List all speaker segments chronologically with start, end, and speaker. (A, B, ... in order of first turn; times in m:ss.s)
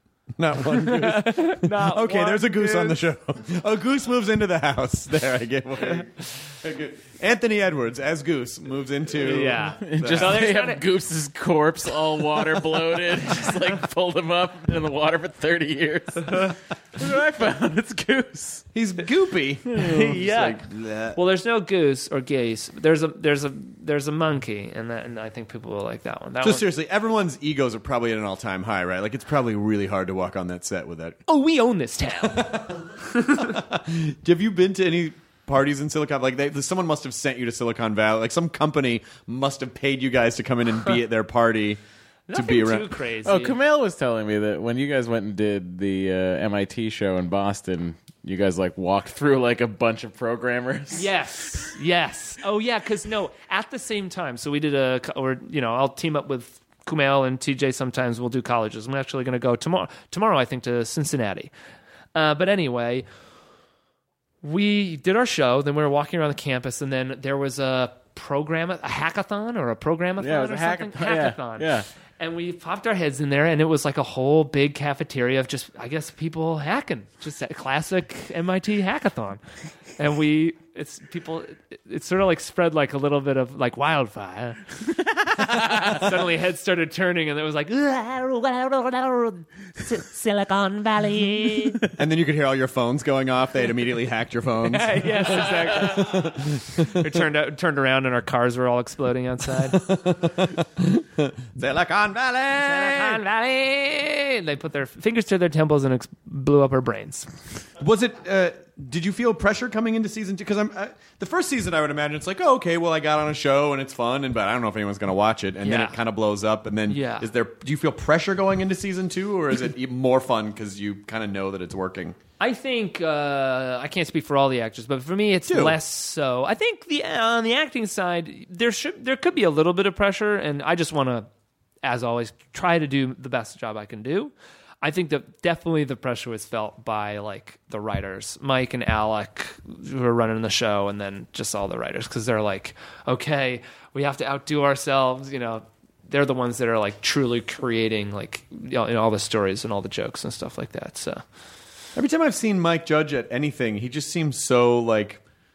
0:00.4-0:10.5 A
0:00.7-0:03.0 B
0:09.2-0:10.8 B
0:09.8-0:18.6 C
0:18.7-0:21.2 A
0:19.7-0:20.6 B
0:21.1-0:26.6 B
0:26.4-0:31.2 A
0:31.3-0:32.5 B
0:32.2-0:41.8 A
0:42.3-0:43.6 B
0:42.3-0:42.9 A
0:43.2-0:51.1 C
0:50.9-1:01.5 B
1:02.1-1:03.0 B
1:04.4-1:19.4 B
1:10.2-1:11.8 C
1:20.0-1:24.6 B
1:25.4-1:26.0 C
1:25.5-1:31.8 B
1:32.0-1:37.1 A
1:34.6-1:39.8 B
1:39.7-1:43.2 A
1:42.6-1:47.3 B
1:47.8-2:02.2 A
1:55.6-1:56.0 B
1:56.9-1:57.3 B
2:02.4-2:11.3 B
2:05.4-2:05.8 A
2:11.8-2:31.2 B
2:31.9-2:35.2 A